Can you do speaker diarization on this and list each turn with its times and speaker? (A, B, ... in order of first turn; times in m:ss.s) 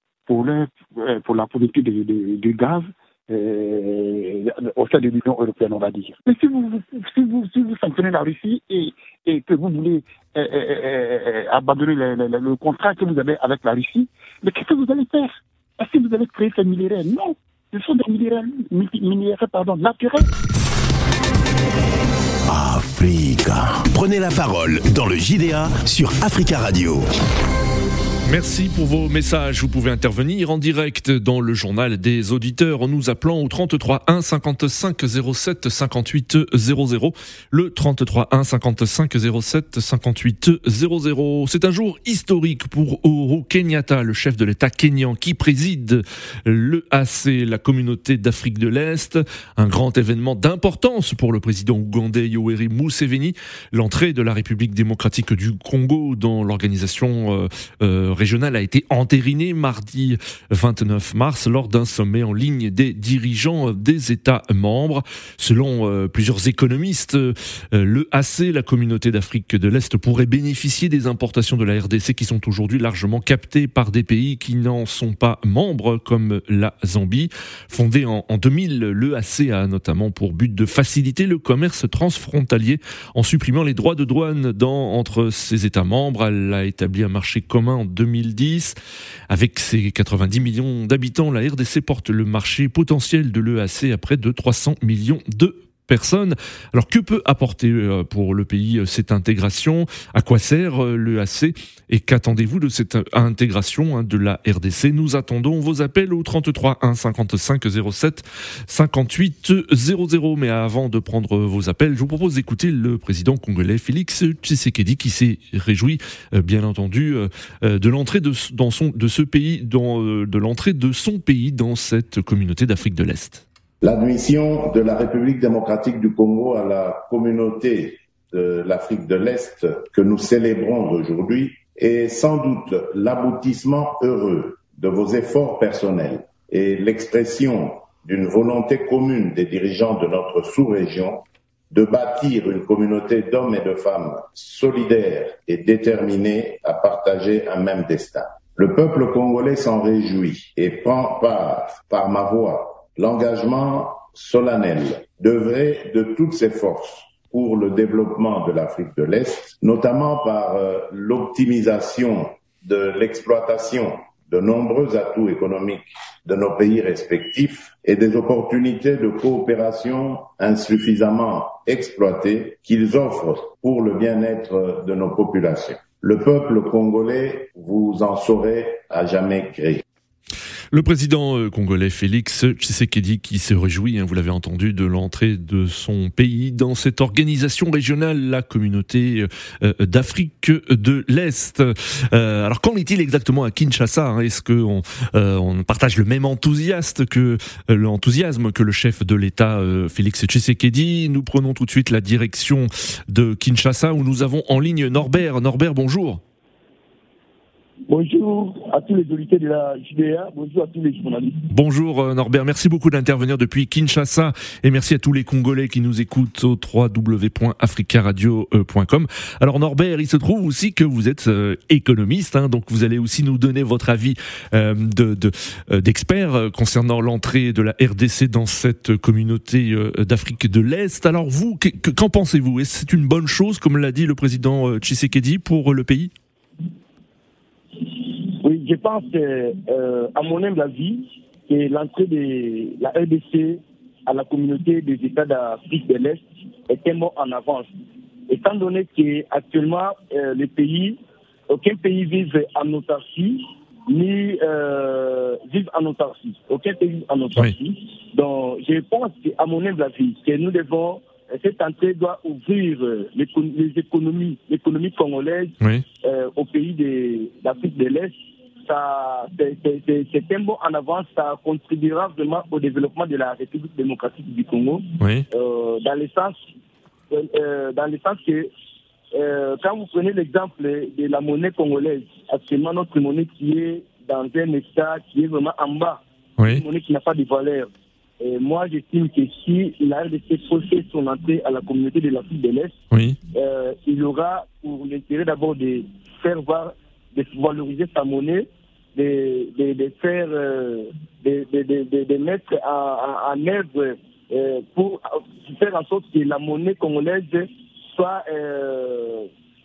0:00.3-0:20.3 A
0:22.5-0:27.1 B
0:28.2-1:28.8 C
1:29.3-2:03.4 C
2:03.8-2:59.8 D
3:00.7-3:26.2 C
3:27.9-3:31.4 E
3:31.5-3:56.1 C
3:58.0-4:07.7 E
4:08.3-4:11.0 E
4:11.5-4:28.1 E
4:28.7-4:36.4 E
4:35.0-4:35.2 C
4:37.1-4:38.5 E
4:39.1-4:47.7 E
4:46.4-4:46.6 C
4:48.2-4:52.7 E
4:52.9-4:53.2 C
4:53.3-5:09.3 E